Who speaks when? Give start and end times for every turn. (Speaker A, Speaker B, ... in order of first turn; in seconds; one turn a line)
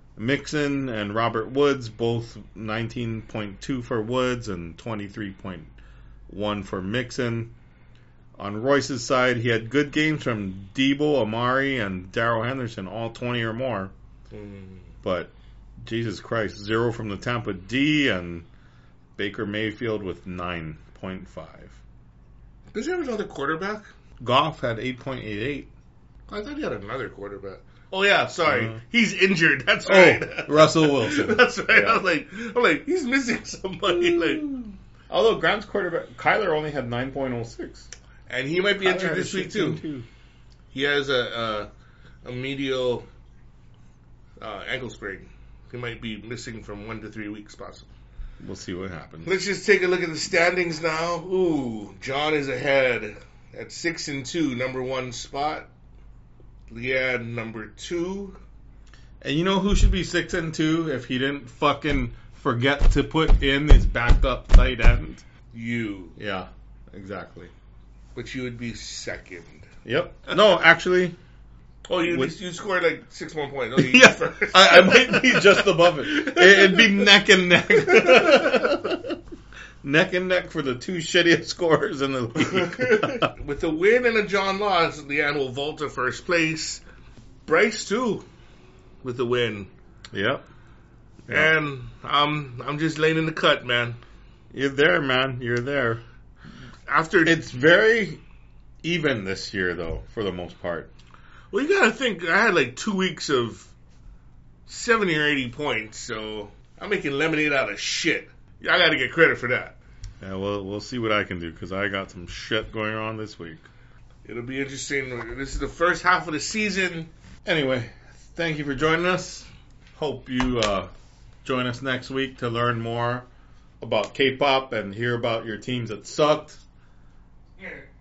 Speaker A: 0.2-5.7
Speaker A: 6.3-7.5
Speaker A: 8.4-13.9
Speaker B: 14.3-14.9
Speaker A: 15.0-18.5
Speaker A: 19.2-21.8
Speaker B: 22.7-23.9
Speaker A: 24.2-25.7
Speaker B: 26.3-34.5
Speaker A: 28.5-28.8
Speaker A: 29.9-32.0
Speaker A: 33.9-37.9
Speaker B: 38.3-39.8
Speaker A: 38.8-40.1
Speaker B: 40.7-41.7
Speaker B: 42.2-43.1
Speaker B: 44.4-47.9
Speaker A: 48.4-49.4
Speaker B: 49.2-55.7
Speaker B: 56.7-58.4
Speaker A: 59.2-65.2
Speaker B: 65.5-66.2
Speaker A: 66.2-67.5
Speaker B: 68.2-69.7
Speaker A: 69.8-71.2
Speaker B: 71.9-77.1
Speaker A: 72.1-72.3
Speaker A: 73.8-79.2
Speaker B: 77.7-78.8
Speaker A: 79.8-83.3
Speaker B: 82.4-86.8
Speaker B: 87.5-88.3
Speaker B: 89.0-89.7
Speaker A: 90.1-90.5
Speaker B: 91.3-94.0
Speaker A: 94.5-96.0
Speaker B: 96.9-97.4
Speaker A: 97.3-98.2
Speaker A: 98.8-100.9
Speaker B: 101.5-103.7
Speaker B: 104.7-109.8
Speaker A: 110.2-113.7
Speaker B: 114.2-117.1
Speaker A: 117.5-120.9
Speaker A: 121.4-123.3
Speaker A: 123.8-126.6